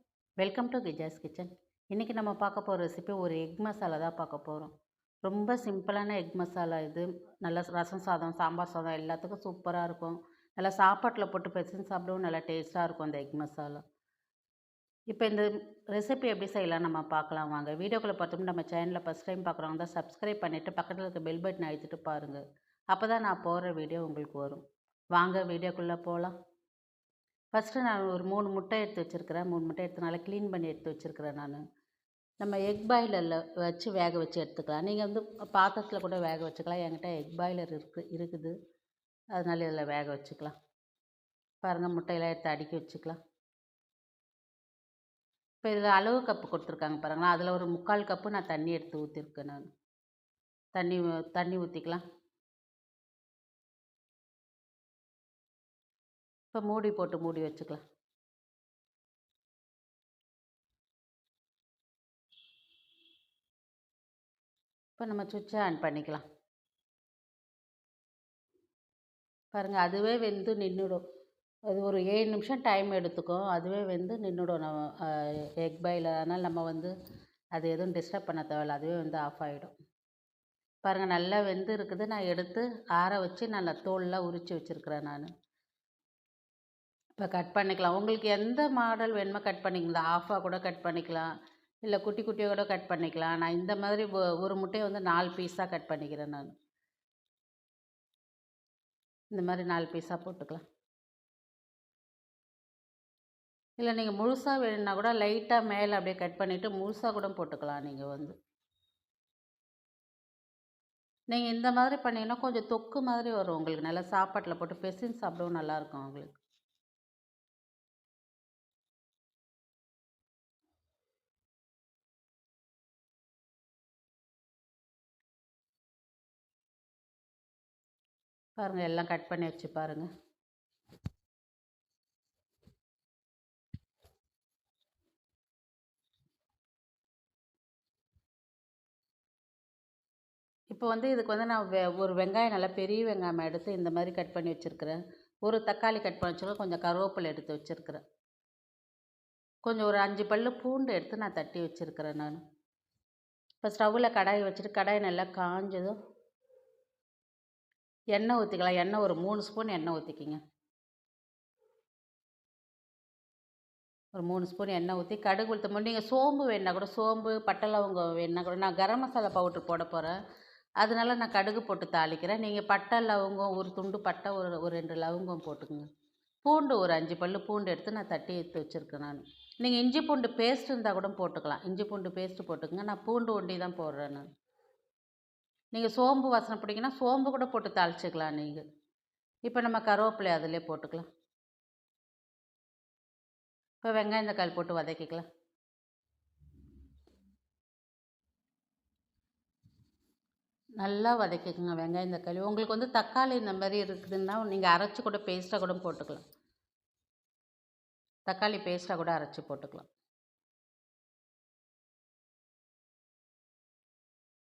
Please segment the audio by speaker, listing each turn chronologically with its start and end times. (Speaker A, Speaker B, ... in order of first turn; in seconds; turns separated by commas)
Speaker A: 0.4-4.7, Speaker A: 5.2-13.8, Speaker A: 15.1-24.6, Speaker A: 25.1-26.3, Speaker A: 27.5-31.6, Speaker A: 32.4-38.5, Speaker A: 39.4-40.5, Speaker A: 41.6-43.2, Speaker A: 45.6-49.7, Speaker A: 50.8-52.0, Speaker A: 56.5-57.8, Speaker A: 65.0-66.2, Speaker A: 69.5-71.0, Speaker A: 71.7-76.9, Speaker A: 77.5-79.7, Speaker A: 80.8-85.3, Speaker A: 87.2-91.3, Speaker A: 91.8-96.5, Speaker A: 99.3-100.6, Speaker A: 103.8-108.3, Speaker A: 111.3-116.4, Speaker A: 128.6-130.1, Speaker A: 140.7-148.0, Speaker A: 149.7-152.4, Speaker A: 153.6-155.9, Speaker A: 158.1-160.4, Speaker A: 164.2-170.2, Speaker A: 170.8-175.9, Speaker A: 176.4-184.2, Speaker A: 185.7-188.6, Speaker A: 189.5-191.1, Speaker A: 193.8-195.2, Speaker A: 200.8-206.2, Speaker A: 208.3-209.9